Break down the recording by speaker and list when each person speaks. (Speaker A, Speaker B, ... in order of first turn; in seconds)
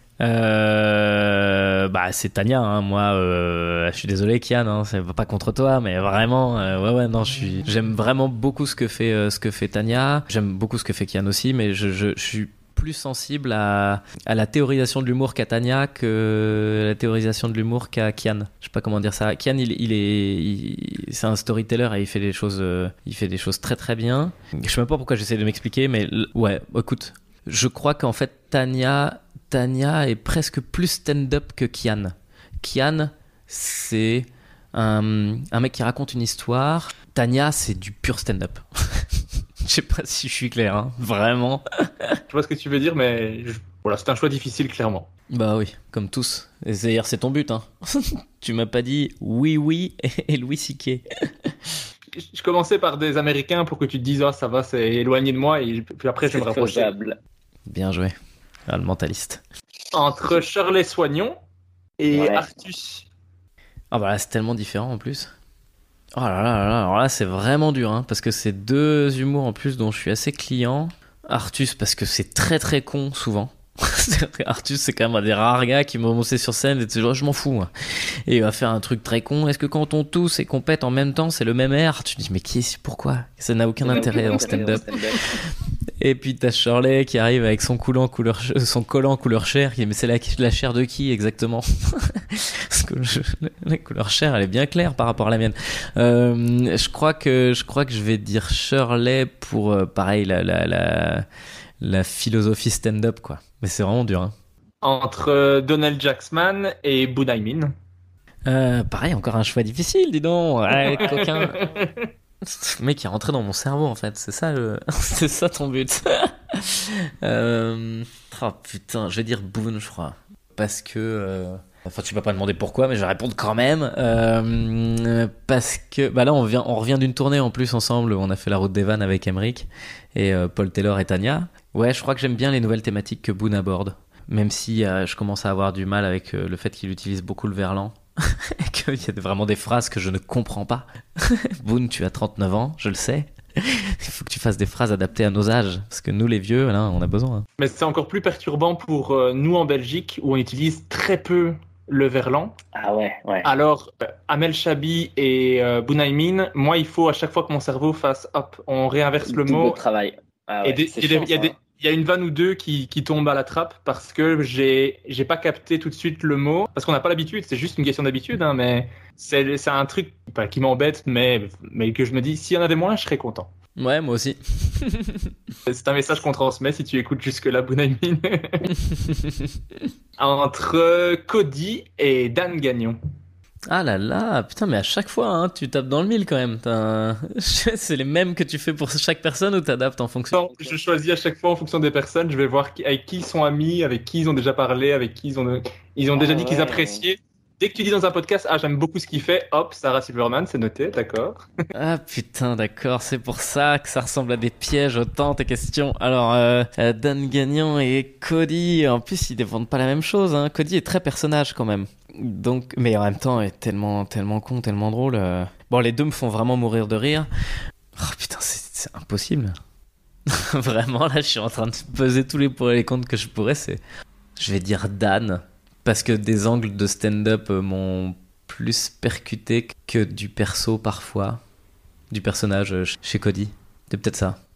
Speaker A: 0.2-39.0, 39.6-42.2, 45.3-51.0, 57.7-58.1, 58.7-59.4, 63.9-65.3, 66.2-77.7, 78.3-85.3, 86.0-101.2, 101.8-104.3, 108.5-111.6, 112.4-147.4, 173.8-175.3, 179.0-179.5, 183.7-190.5, 201.7-217.3, 217.9-219.6, 220.3-223.8, 224.4-231.4, 232.1-234.4
Speaker B: 42.3-45.1, 52.1-56.9, 59.9-61.4, 62.0-63.1, 84.1-84.4, 104.8-107.7, 111.0-112.1, 147.6-152.6, 153.4-159.8, 160.6-173.5, 175.7-178.7, 180.2-183.0, 190.3-201.4
Speaker C: 56.3-57.2, 62.1-62.4, 83.8-85.2, 152.7-153.5, 159.2-161.5, 196.1-197.0